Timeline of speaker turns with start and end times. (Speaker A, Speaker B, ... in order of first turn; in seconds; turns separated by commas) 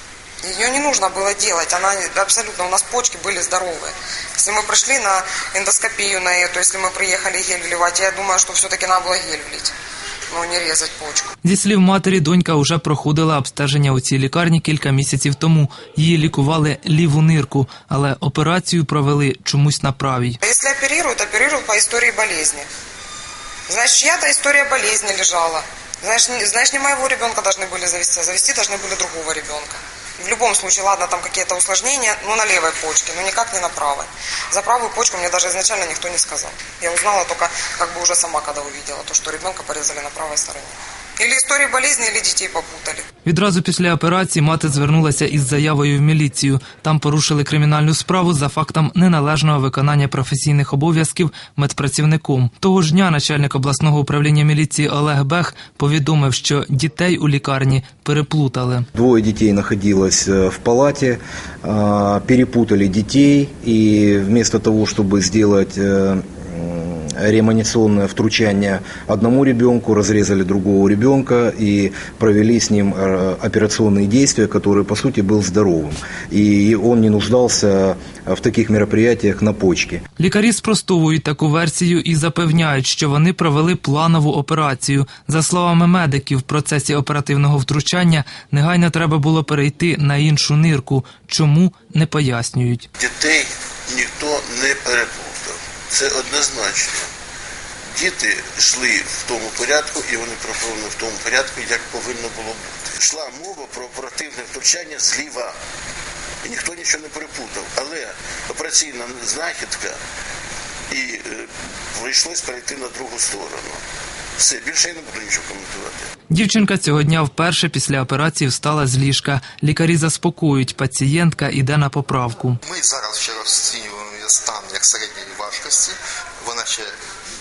Speaker A: 0.4-9.7, Speaker A: 10.3-11.3, Speaker B: 11.4-20.4, Speaker A: 20.4-22.7, Speaker A: 23.7-43.0, Speaker B: 43.2-58.9, Speaker C: 58.9-80.0, Speaker B: 80.2-92.8, Speaker D: 93.0-97.1, Speaker D: 98.0-105.5, Speaker D: 106.4-110.0, Speaker D: 110.9-113.8, Speaker D: 114.4-116.1, Speaker B: 116.3-122.6, Speaker E: 122.6-126.9